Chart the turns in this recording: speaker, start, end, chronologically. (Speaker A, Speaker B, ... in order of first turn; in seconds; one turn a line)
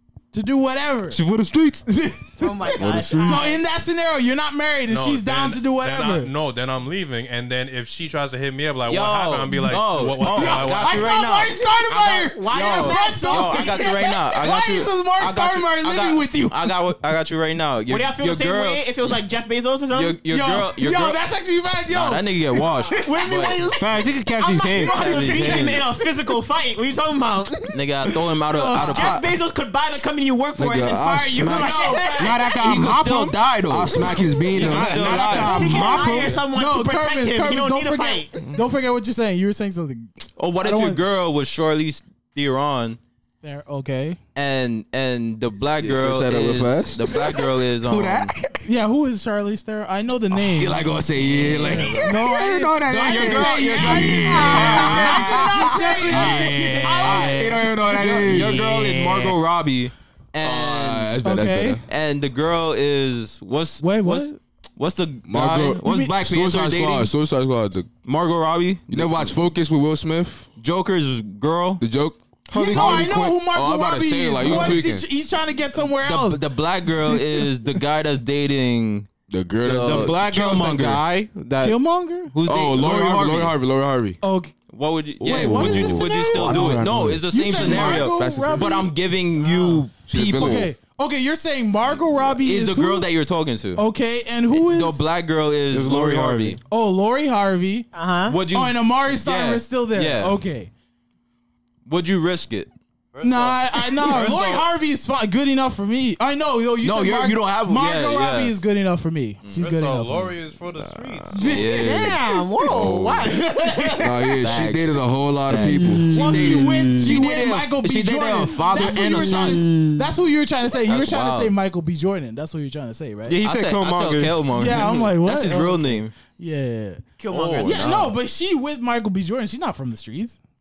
Speaker A: 0.3-1.2
Speaker B: 1.1-1.9
Speaker A: 1.9-2.5
Speaker C: 2.4-3.6
Speaker B: 2.7-3.4
Speaker D: 3.0-3.3
Speaker A: 3.2-6.3
Speaker E: 4.9-11.3
Speaker F: 8.9-18.9
Speaker A: 10.3-16.8
Speaker C: 11.9-14.2
Speaker C: 17.9-20.2
Speaker F: 19.9-21.2
Speaker A: 20.3-23.7
Speaker F: 21.9-23.6
Speaker C: 22.9-27.7
Speaker B: 23.8-25.4
Speaker F: 24.8-25.8
Speaker A: 25.2-25.6
Speaker F: 27.7-29.3
Speaker A: 28.5-29.1
Speaker C: 28.7-32.6
Speaker D: 30.6-32.0
Speaker A: 31.5-32.4
Speaker B: 32.1-33.4
Speaker F: 32.5-36.1
Speaker D: 33.7-35.6
Speaker B: 34.5-36.4
Speaker C: 35.0-38.3
Speaker A: 36.5-41.0
Speaker F: 40.4-43.0
Speaker A: 43.4-44.2
Speaker F: 44.3-48.3
Speaker D: 45.8-48.6
Speaker A: 48.6-50.9
Speaker D: 50.3-58.8
Speaker F: 51.2-52.1
Speaker A: 51.4-57.5
Speaker F: 52.9-61.2
Speaker C: 56.5-56.9
Speaker D: 60.4-61.9
Speaker A: 61.2-61.8
Speaker F: 61.9-67.1
Speaker A: 63.8-64.4
Speaker D: 65.3-68.0
Speaker A: 65.8-66.1
Speaker F: 68.0-69.3
Speaker D: 68.9-70.5
Speaker F: 70.6-71.8
Speaker D: 71.8-75.0
Speaker A: 72.5-77.5
Speaker F: 74.4-74.8
Speaker F: 75.9-79.1
Speaker D: 79.3-80.2
Speaker F: 79.6-81.0
Speaker B: 79.8-81.8
Speaker A: 81.6-82.3
Speaker F: 82.3-83.5
Speaker D: 82.4-84.2
Speaker A: 84.2-84.5
Speaker F: 84.7-90.7
Speaker D: 85.2-88.9
Speaker A: 85.2-88.9
Speaker D: 90.1-90.7
Speaker A: 90.1-93.1
Speaker F: 92.1-93.8
Speaker A: 93.7-95.1
Speaker F: 94.5-96.6
Speaker B: 95.7-96.6
Speaker A: 96.7-97.9
Speaker C: 97.9-98.4
Speaker F: 98.3-100.4
Speaker A: 98.5-100.7
Speaker F: 101.8-102.7
Speaker E: 103.1-104.4
Speaker A: 103.2-110.4
Speaker F: 104.0-104.7
Speaker F: 106.8-108.5
Speaker E: 109.6-111.7
Speaker A: 111.3-112.1
Speaker F: 111.3-113.3
Speaker C: 111.6-114.5
Speaker D: 114.0-116.9
Speaker F: 114.4-119.7
Speaker C: 115.5-117.1
Speaker A: 116.1-123.4
Speaker C: 118.7-120.0
Speaker F: 120.8-121.5
Speaker B: 123.3-124.9
Speaker F: 123.3-126.1
Speaker A: 124.5-127.0
Speaker C: 127.2-127.9
Speaker F: 127.3-128.2
Speaker A: 127.6-130.4